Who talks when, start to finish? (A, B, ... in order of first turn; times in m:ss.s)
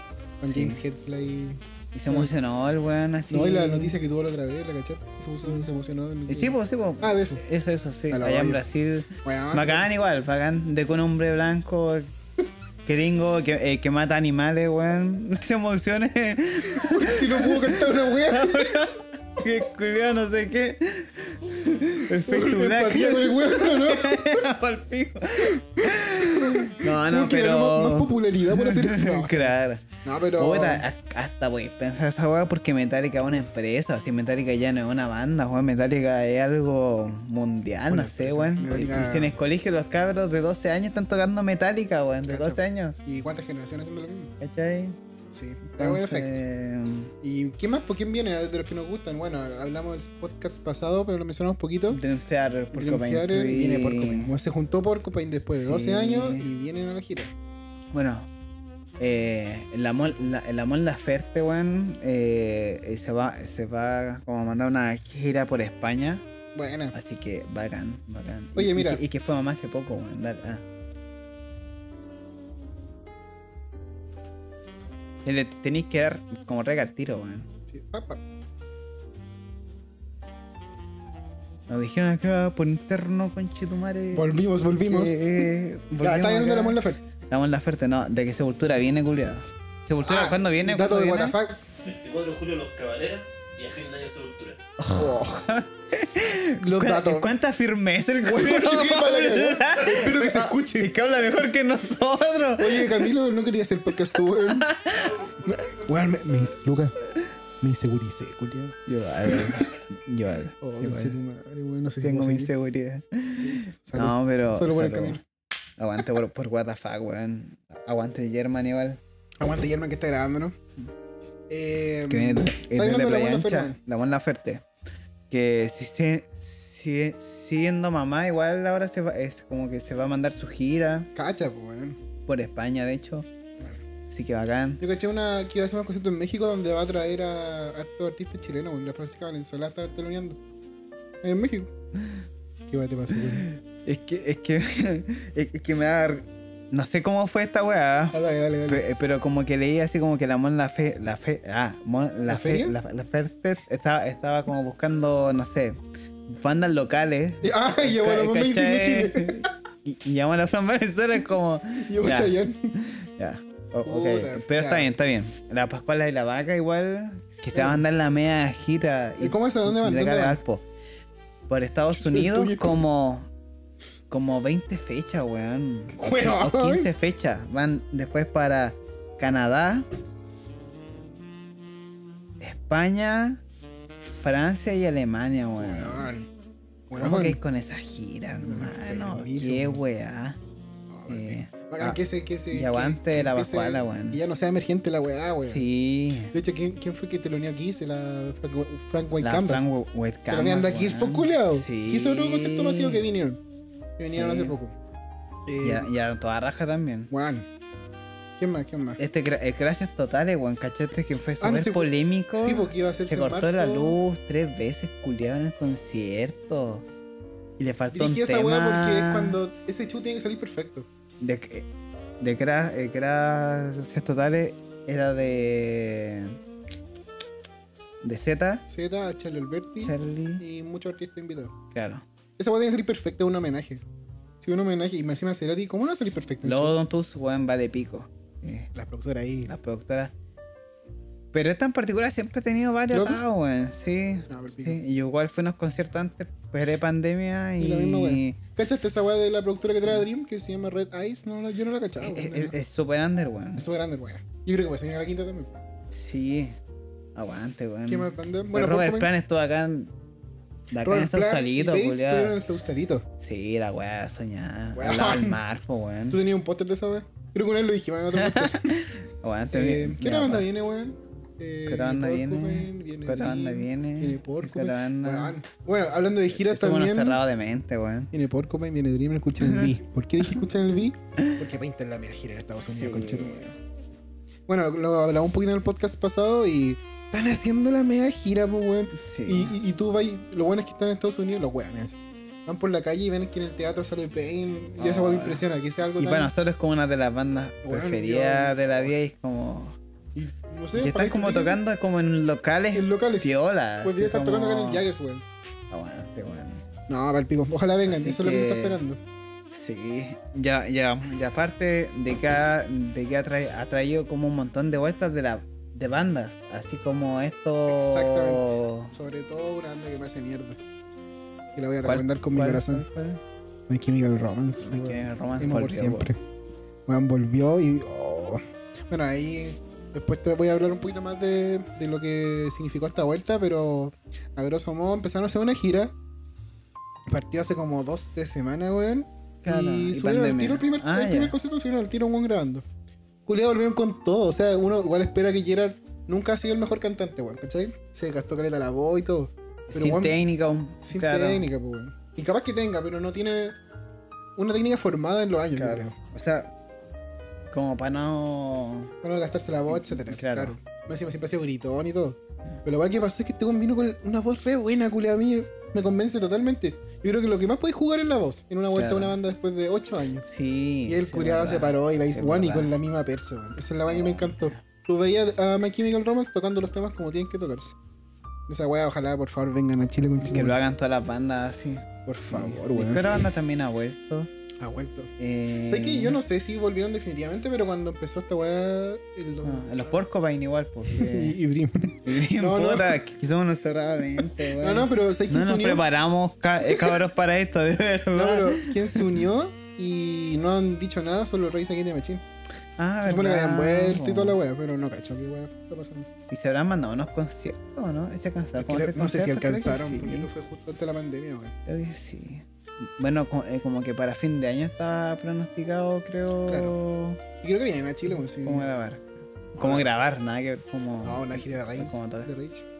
0:00.4-0:02.3 A
0:00.4-0:00.8 B
0:01.9-0:03.9 B
0:03.3-0:07.4 A
0:06.3-0:12.1 B
0:08.1-0:08.6 A
0:09.2-0:09.9 A
0:12.8-0:29.8 B
0:16.7-0:18.8 A
0:22.2-0:24.4 A
0:25.4-0:30.8 A
0:30.4-0:43.0 B
0:37.9-0:39.3 A
0:42.3-0:44.3 A
0:44.4-0:45.0 B
0:45.3-0:46.4 A
0:45.7-0:47.1 B
0:47.2-0:52.0 A
0:51.9-0:54.3 B
0:52.7-0:57.3 A
0:55.6-0:56.4 B
0:57.9-0:58.3 B
0:59.0-1:06.2 B
1:06.5-1:06.9 A
1:06.9-1:10.6 B
1:08.6-1:09.0 A
1:15.2-1:17.5 B
1:17.7-1:18.2 A
1:21.7-1:24.3 B
1:24.1-1:25.5 A
1:24.8-1:26.8 B
1:26.0-1:27.0 A
1:27.3-1:31.4 B
1:30.0-1:31.6 A
1:31.8-1:34.6 C
1:34.8-1:43.1 B
1:34.9-1:35.4 A
1:36.6-1:37.3 A
1:38.2-1:40.9 A
1:42.6-1:44.7 A
1:44.1-1:45.1 B
1:45.4-1:46.9 A
1:47.6-1:49.6 A
1:48.9-1:51.2 B
1:50.6-1:52.5 A
1:52.0-1:55.2 B
1:53.4-1:55.2 A
1:55.8-1:59.0 B
1:59.4-2:00.5 A
2:01.5-2:03.8 A
2:02.1-2:04.6 B
2:05.3-2:11.1 B
2:11.1-2:12.0 A
2:12.2-2:13.3 B
2:14.1-2:14.8 B
2:14.8-2:20.4 A
2:21.2-2:21.7 A
2:22.7-2:23.4 A
2:23.1-2:50.6 B
2:28.1-2:28.8 A
2:32.3-2:32.7 A
2:37.4-2:39.5 A
2:41.8-2:42.7 A
2:43.8-2:44.9 A
2:47.5-2:47.8 A
2:49.2-2:50.4 A
2:51.5-2:53.3 B
2:51.9-2:52.8 A
2:54.1-2:59.8 B
2:55.9-2:56.9 A
3:02.4-3:03.4 B
3:04.1-3:06.1 B
3:05.6-3:06.3 A
3:06.9-3:07.4 A
3:07.0-3:10.4 B
3:08.4-3:09.8 A
3:10.9-3:15.6 A
3:11.1-3:12.0 B
3:12.5-3:14.2 B
3:15.4-3:16.3 B
3:16.3-3:19.6 A
3:19.2-3:23.0 B
3:20.3-3:23.4 A
3:24.0-3:24.7 A
3:24.1-3:24.6 B
3:25.5-3:25.9 A
3:25.6-3:27.1 B
3:27.1-3:27.5 A
3:28.4-3:29.0 A
3:29.0-3:36.8 B
3:31.4-3:34.0 A
3:37.6-3:39.4 B
3:37.9-3:40.9 A
3:41.2-3:41.7 B
3:42.2-3:46.4 B
3:48.0-3:48.6 B
3:48.7-3:51.5 A
3:49.8-3:50.4 B
3:51.7-3:52.0 B
3:52.4-3:53.8 A
3:54.4-3:56.8 A
3:56.4-3:58.7 B
3:58.7-3:59.5 A
3:59.5-4:00.1 B
4:01.3-4:08.4 B
4:02.9-4:03.2 A
4:04.3-4:04.8 A
4:07.6-4:12.6 A
4:12.0-4:13.6 B
4:13.6-4:15.6 A
4:15.9-4:16.6 B
4:17.1-4:19.9 B
4:17.9-4:19.1 A
4:20.7-4:22.4 B
4:20.8-4:23.0 A
4:23.2-4:26.2 B
4:24.7-4:25.4 A
4:26.1-4:28.7 A
4:28.1-4:30.4 B
4:29.5-4:37.2 A
4:31.7-4:35.4 B
4:36.3-4:38.1 B
4:38.1-4:43.4 A
4:39.4-4:39.7 B
4:42.7-4:43.6 B
4:44.5-4:56.3 A
4:49.0-4:49.6 B
4:54.8-4:55.4 B
4:56.0-4:59.8 B
4:57.6-4:58.6 A
5:00.1-5:01.6 A
5:00.7-5:04.8 B
5:02.7-5:03.3 A
5:03.8-5:05.2 A
5:05.7-5:06.6 B
5:06.9-5:09.0 A
5:07.8-5:08.8 B
5:09.5-5:18.9 B
5:17.7-5:20.6 A
5:21.6-5:22.8 A
5:21.8-5:23.2 B
5:23.7-5:26.2 A
5:24.6-5:26.1 B
5:26.9-5:35.9 A
5:37.1-5:42.6 A
5:39.4-5:41.4 B
5:43.2-5:50.2 A
5:49.7-5:51.5 B
5:50.9-5:53.6 A
5:54.4-5:55.9 A
5:55.5-5:56.5 B
5:57.5-5:58.9 B
5:59.0-6:10.2 A
5:59.7-6:00.5 B
6:08.7-6:09.2 B
6:10.2-6:12.7 B
6:10.8-6:17.8 A
6:13.9-6:14.6 B
6:18.5-6:20.6 A
6:20.2-6:24.3 B
6:22.0-6:23.2 A
6:24.6-6:25.1 A
6:25.2-6:26.2 B
6:25.7-6:30.0 A
6:29.4-6:31.4 B
6:30.9-6:33.0 A
6:32.0-6:39.0 B
6:34.2-6:35.8 A
6:38.1-6:42.2 A
6:42.8-6:44.4 B
6:43.0-6:46.1 A
6:46.3-6:50.3 B
6:48.6-6:51.5 A
6:51.6-6:57.2 B
6:56.5-6:56.7 A
6:57.4-6:58.7 A
6:58.1-7:02.3 B
6:59.6-6:59.9 A
7:01.0-7:02.6 A